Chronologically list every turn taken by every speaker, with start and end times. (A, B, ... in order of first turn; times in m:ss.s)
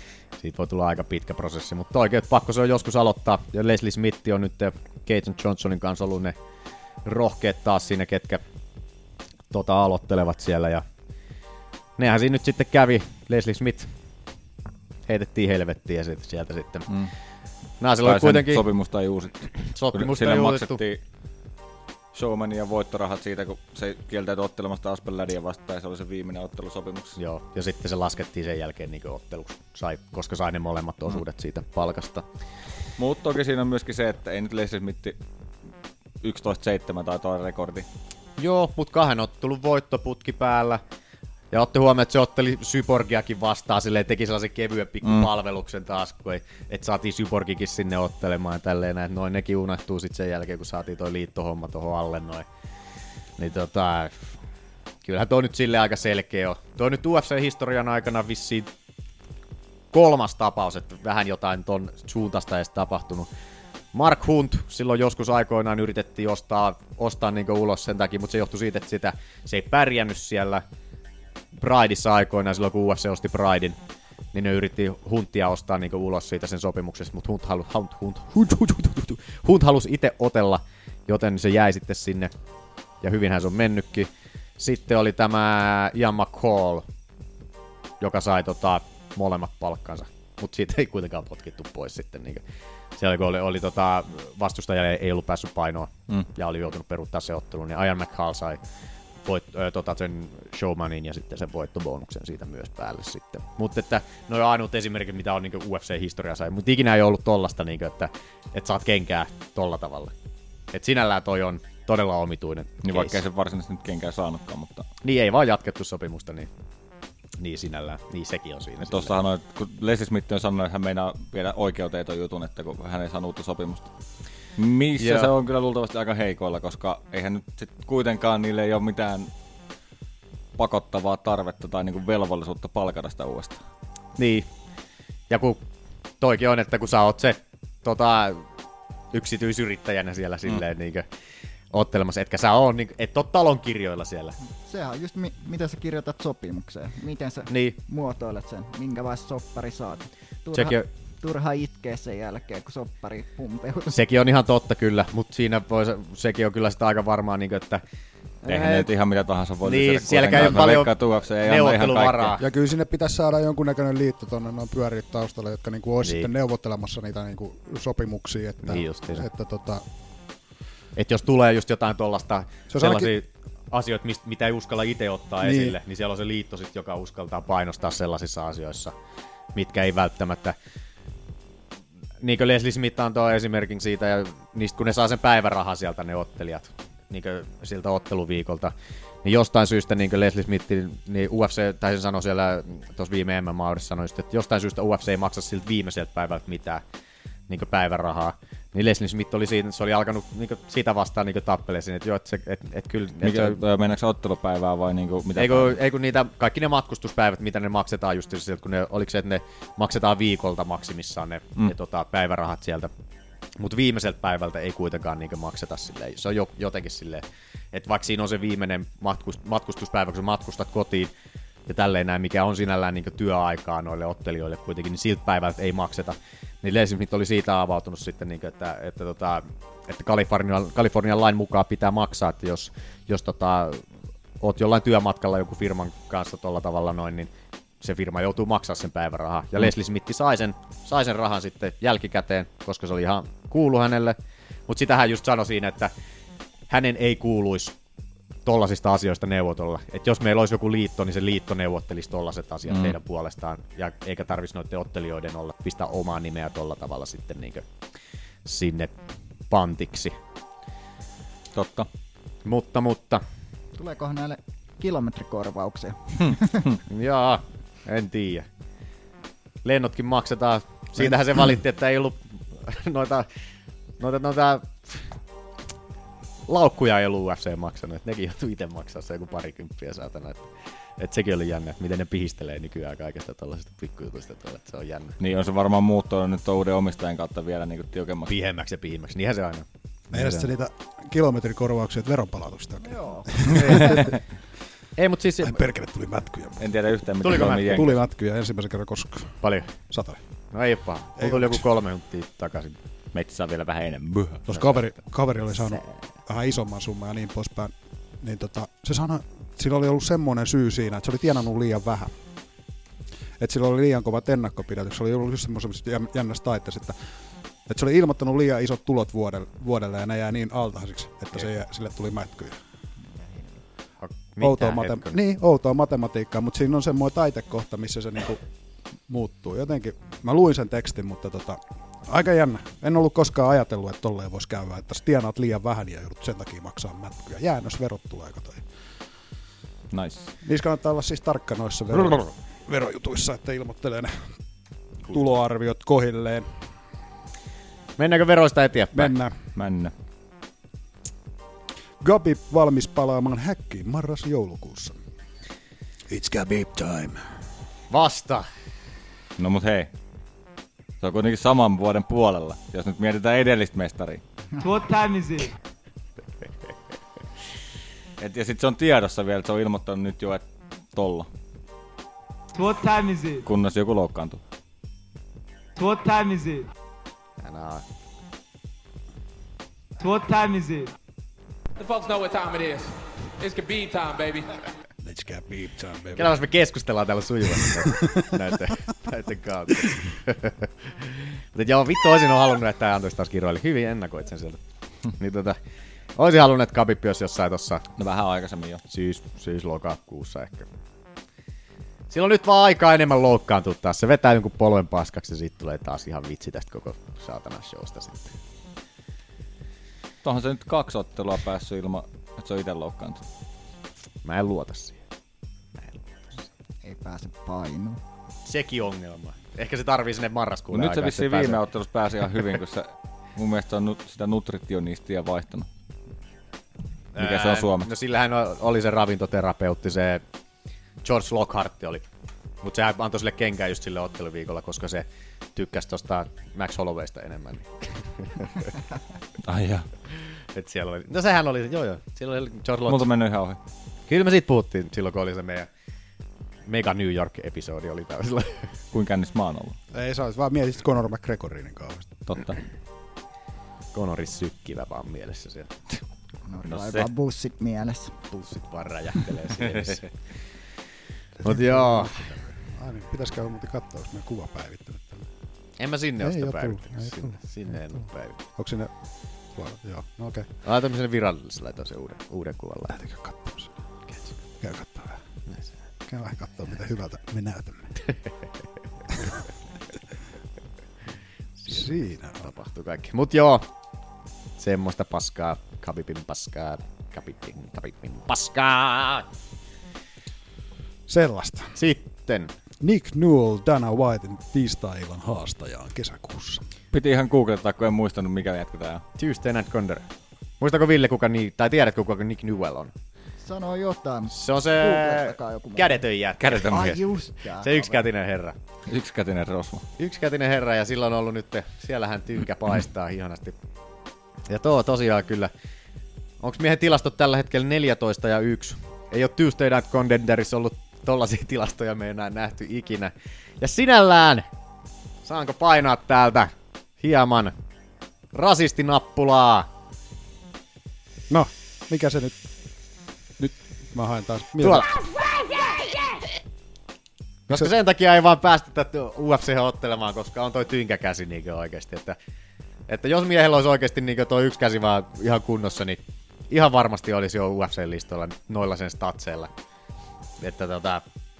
0:00.4-0:06.4 A
0:07.0-0:08.4 A
0:09.5-0:10.8 A
0:12.0-0:13.9 A
0:15.1-0:16.9 A
0:17.8-0:18.7 A
0:18.0-0:21.0 B
0:19.7-0:20.8 A
0:22.1-0:27.2 B
0:27.2-0:32.2 A
0:33.0-0:35.2 B
0:36.2-0:37.9 B
0:38.4-0:40.8 A
0:41.5-0:52.4 A
0:53.4-0:54.3 A
0:55.0-0:58.7 A
0:59.9-1:03.3 A
1:03.9-1:10.6 A
1:11.6-1:13.8 A
1:14.3-1:22.3 A
1:23.0-1:26.8 A
1:28.0-1:32.4 A
1:33.0-1:38.6 A
1:39.2-1:50.1 A
1:50.7-1:53.2 A
1:52.8-1:54.9 B
1:55.0-1:56.5 A
1:57.4-1:59.1 A
1:58.8-2:03.9 B
2:04.6-2:09.3 B
2:05.0-2:05.3 A
2:10.6-2:13.6 B
2:14.2-2:14.5 A
2:15.3-2:15.6 A
2:16.2-2:18.4 A
2:19.1-2:21.1 A
2:21.7-2:24.4 A
2:24.5-2:34.0 C
2:27.5-2:27.8 A
2:30.5-2:30.9 A
2:33.9-2:37.8 A
2:38.4-2:38.9 A
2:38.5-2:42.4 B
2:39.6-2:42.4 A
2:42.4-2:49.8 D
2:46.0-2:46.3 A
2:48.6-2:49.2 A
2:51.0-2:58.9 A
2:52.7-2:53.1 D
2:55.4-2:55.8 D
2:59.5-3:00.6 A
3:02.2-3:16.8 A
3:17.5-3:23.6 A
3:23.2-3:25.8 B
3:25.4-3:32.9 A
3:33.6-3:41.1 A
3:41.7-3:53.8 A
3:54.4-3:57.3 A
3:57.8-4:04.2 A
4:04.7-4:05.9 A
4:06.7-4:07.7 A
4:08.4-4:17.6 A
4:12.7-4:12.9 B
4:18.4-4:18.9 A
4:19.5-4:20.1 A
4:21.5-4:21.9 B
4:22.4-4:23.2 A
4:23.8-4:26.7 C
4:26.9-4:28.4 A
4:29.6-4:33.3 A
4:34.0-4:35.0 A
4:36.5-4:40.5 A
4:41.0-4:45.2 A
4:45.2-4:48.3 B
4:48.3-4:50.5 A
4:50.1-4:54.1 D
4:52.8-4:53.5 C
4:53.5-4:54.2 A
4:55.0-4:55.6 A
4:55.4-4:56.7 D
4:56.6-4:58.0 B
4:57.2-4:57.8 A
4:57.5-5:00.2 D
4:59.4-4:59.7 A
5:00.5-5:02.8 A
5:01.2-5:01.6 D
5:03.1-5:04.4 B
5:04.5-5:12.1 D
5:04.5-5:04.8 A
5:13.4-5:17.0 D
5:17.7-5:22.6 D
5:23.1-5:23.6 C
5:24.0-5:25.1 A
5:24.4-5:28.4 D
5:29.1-5:38.6 D
5:39.9-5:40.3 B
5:40.4-5:44.1 D
5:45.1-5:46.5 D
5:48.0-5:49.1 A
5:48.9-5:49.4 D
5:49.6-5:49.9 B
5:52.0-5:55.0 D
5:56.1-5:57.2 D
5:57.9-5:58.4 A
5:59.4-5:59.9 B
6:01.0-6:04.2 B
6:04.6-6:05.5 E
6:08.2-6:10.4 B
6:10.9-6:11.3 B
6:12.5-6:13.4 E
6:13.4-6:14.4 B
6:15.8-6:16.7 E
6:17.4-6:17.8 A
6:20.0-6:20.9 E
6:21.8-6:24.5 F
6:25.0-6:26.4 D
6:26.2-6:34.6 A
6:27.6-6:28.2 D
6:35.1-6:35.6 A
6:36.2-6:37.8 A
6:38.0-6:38.8 B
6:38.9-6:40.7 A
6:42.1-6:48.3 A
6:50.2-6:53.2 B
6:54.2-6:55.0 A
6:55.8-6:56.4 A
6:56.8-6:58.0 C
6:58.4-7:01.6 A
7:00.7-7:05.7 B
7:07.1-7:10.2 A
7:07.2-7:07.9 B
7:11.0-7:12.0 A
7:12.6-7:18.7 A
7:19.4-7:19.9 B
7:20.5-7:23.1 A
7:22.9-7:23.6 B
7:24.1-7:25.7 A
7:26.6-7:28.6 A
7:28.9-7:29.8 B
7:29.9-7:32.2 D
7:32.3-7:32.6 B
7:33.9-7:35.7 A
7:36.5-7:38.1 C
7:36.7-7:37.1 B
7:38.3-7:40.0 A
7:41.4-7:45.3 D
7:41.4-7:42.2 A
7:45.8-7:48.4 A
7:46.2-7:47.4 D
7:48.6-7:48.9 D
7:49.5-7:50.5 D
7:50.6-7:53.0 A
7:52.9-7:53.7 D
7:54.6-7:55.2 D
7:56.1-7:57.9 D
8:01.6-8:03.6 A
8:01.7-8:02.5 D
8:04.6-8:09.3 A
8:11.1-8:11.8 D
8:11.8-8:12.5 A
8:12.8-8:16.6 D
8:16.9-8:19.0 B
8:19.2-8:20.1 A
8:20.6-8:22.9 A
8:23.4-8:26.0 C
8:24.3-8:26.8 A
8:26.4-8:27.0 B
8:26.6-8:28.0 C
8:27.6-8:28.5 A
8:28.9-8:29.8 B
8:30.0-8:33.6 A
8:34.5-8:35.5 A
8:36.4-8:44.5 A
8:45.2-8:47.5 A
8:48.3-8:49.7 A
8:51.3-8:52.3 D
8:53.4-8:54.9 D
8:54.6-8:55.0 A
8:57.5-9:02.2 A
9:02.9-9:09.5 A
9:10.4-9:11.0 A